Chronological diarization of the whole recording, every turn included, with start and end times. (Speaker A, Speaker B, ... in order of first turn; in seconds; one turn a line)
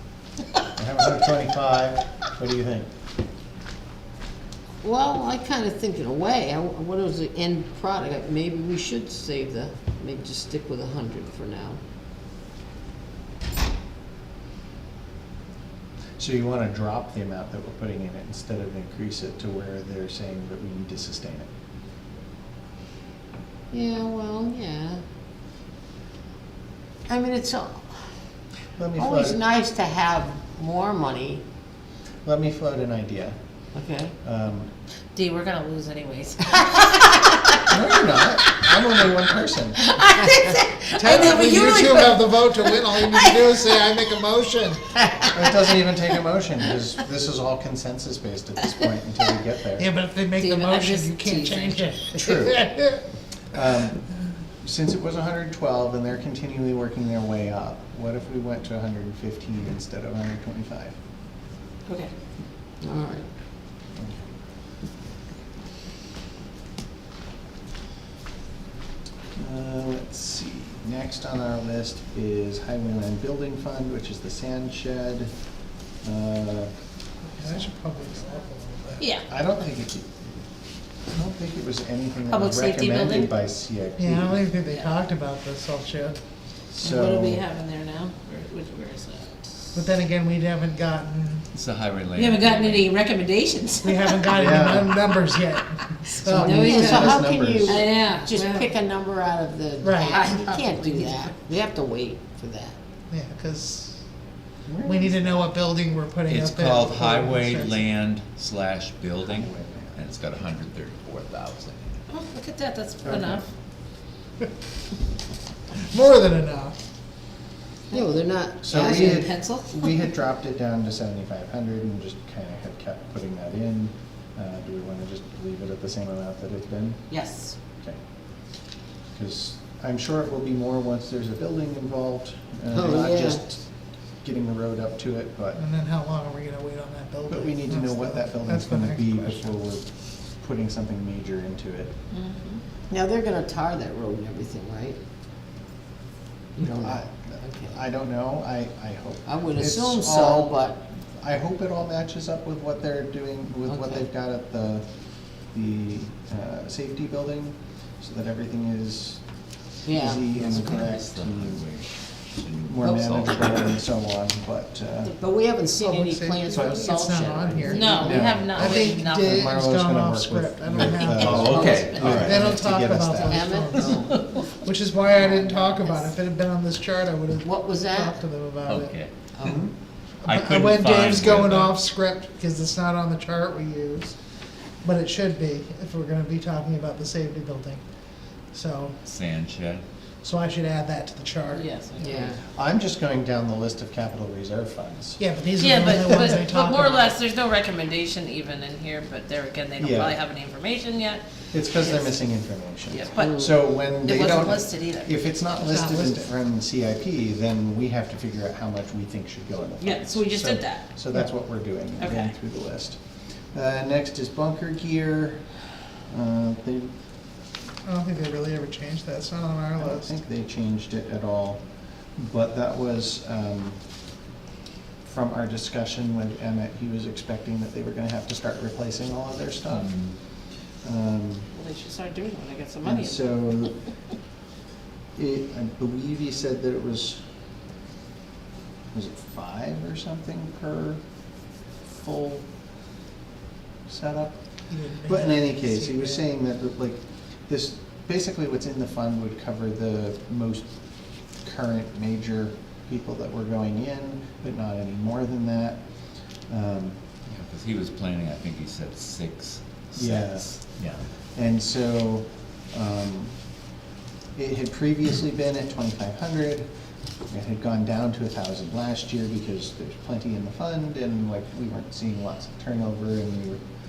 Speaker A: 0.8-2.9
Speaker B: 4.8-11.8
Speaker A: 16.2-21.5
Speaker B: 23.7-25.0
Speaker B: 27.1-27.9
Speaker A: 28.8-29.4
Speaker B: 29.0-31.4
Speaker A: 32.2-33.4
Speaker B: 33.7-34.1
Speaker A: 34.2-34.7
Speaker C: 35.1-37.6
Speaker A: 37.6-39.9
Speaker C: 39.8-43.4
Speaker D: 41.0-44.9
Speaker A: 45.3-49.9
Speaker D: 49.8-53.0
Speaker C: 50.4-52.0
Speaker A: 52.1-52.7
Speaker A: 53.5-54.0
Speaker A: 54.6-61.0
Speaker C: 61.9-62.1
Speaker B: 62.8-63.3
Speaker A: 69.4-75.3
Speaker A: 76.0-76.7
Speaker D: 77.4-79.1
Speaker C: 79.0-79.3
Speaker A: 79.3-80.4
Speaker A: 81.0-84.4
Speaker C: 82.3-83.3
Speaker D: 84.0-86.2
Speaker C: 84.7-85.0
Speaker A: 86.8-87.5
Speaker C: 86.8-89.7
Speaker D: 89.7-91.5
Speaker E: 91.5-92.9
Speaker C: 92.2-94.6
Speaker D: 93.8-97.1
Speaker A: 94.3-95.0
Speaker A: 96.2-97.8
Speaker B: 96.3-102.8
Speaker C: 96.3-98.8
Speaker D: 99.8-100.2
Speaker C: 100.1-101.3
Speaker D: 103.1-104.0
Speaker A: 104.7-105.5
Speaker D: 104.8-107.8
Speaker E: 106.3-112.0
Speaker A: 109.3-110.0
Speaker C: 112.1-113.5
Speaker A: 113.0-113.4
Speaker D: 115.9-116.8
Speaker B: 117.9-119.2
Speaker A: 118.6-127.0
Speaker C: 118.7-119.9
Speaker C: 127.1-127.5
Speaker A: 129.1-133.6
Speaker B: 132.7-133.4
Speaker A: 134.2-135.6
Speaker D: 135.6-139.5
Speaker A: 137.3-141.9
Speaker C: 142.1-142.6
Speaker B: 142.9-145.0
Speaker B: 146.6-147.8
Speaker A: 146.8-154.9
Speaker B: 149.3-150.8
Speaker B: 153.7-154.1
Speaker A: 155.5-159.2
Speaker B: 159.8-160.2
Speaker A: 159.9-161.7
Speaker E: 160.3-163.8
Speaker A: 162.7-165.2
Speaker B: 165.0-168.0
Speaker D: 165.8-178.9
Speaker A: 166.5-173.7
Speaker C: 167.7-169.6
Speaker C: 170.8-172.0
Speaker E: 171.1-172.4
Speaker B: 171.4-172.3
Speaker B: 173.3-174.4
Speaker C: 173.9-174.4
Speaker C: 175.2-175.9
Speaker B: 175.2-175.6
Speaker B: 177.4-178.2
Speaker E: 178.7-179.1
Speaker B: 179.4-179.7
Speaker E: 180.2-181.8
Speaker D: 180.2-184.2
Speaker D: 184.8-187.8
Speaker D: 188.5-189.0
Speaker E: 189.0-189.8
Speaker D: 190.2-191.7
Speaker C: 191.5-192.4
Speaker B: 192.0-192.4
Speaker A: 192.5-195.2
Speaker D: 195.2-197.2
Speaker C: 195.6-201.2
Speaker A: 195.9-196.3
Speaker A: 199.8-200.2
Speaker A: 201.5-213.0
Speaker C: 201.8-202.2
Speaker C: 202.9-205.1
Speaker B: 203.2-203.5
Speaker D: 205.7-206.3
Speaker C: 209.8-210.9
Speaker C: 212.0-212.3
Speaker A: 213.5-215.5
Speaker A: 216.1-216.9
Speaker D: 217.8-220.1
Speaker A: 219.8-221.6
Speaker A: 222.2-223.8
Speaker A: 225.0-229.9
Speaker E: 229.7-230.2
Speaker A: 230.8-231.5
Speaker C: 231.5-233.3
Speaker A: 232.8-233.8
Speaker A: 235.2-237.2
Speaker A: 238.9-241.0
Speaker A: 241.8-242.5
Speaker A: 243.9-244.4
Speaker D: 244.7-246.3
Speaker A: 245.1-250.7
Speaker A: 251.4-255.8
Speaker A: 256.5-257.0
Speaker E: 257.3-261.0
Speaker A: 259.9-260.7
Speaker A: 261.4-263.4
Speaker A: 264.4-266.7
Speaker A: 267.3-273.6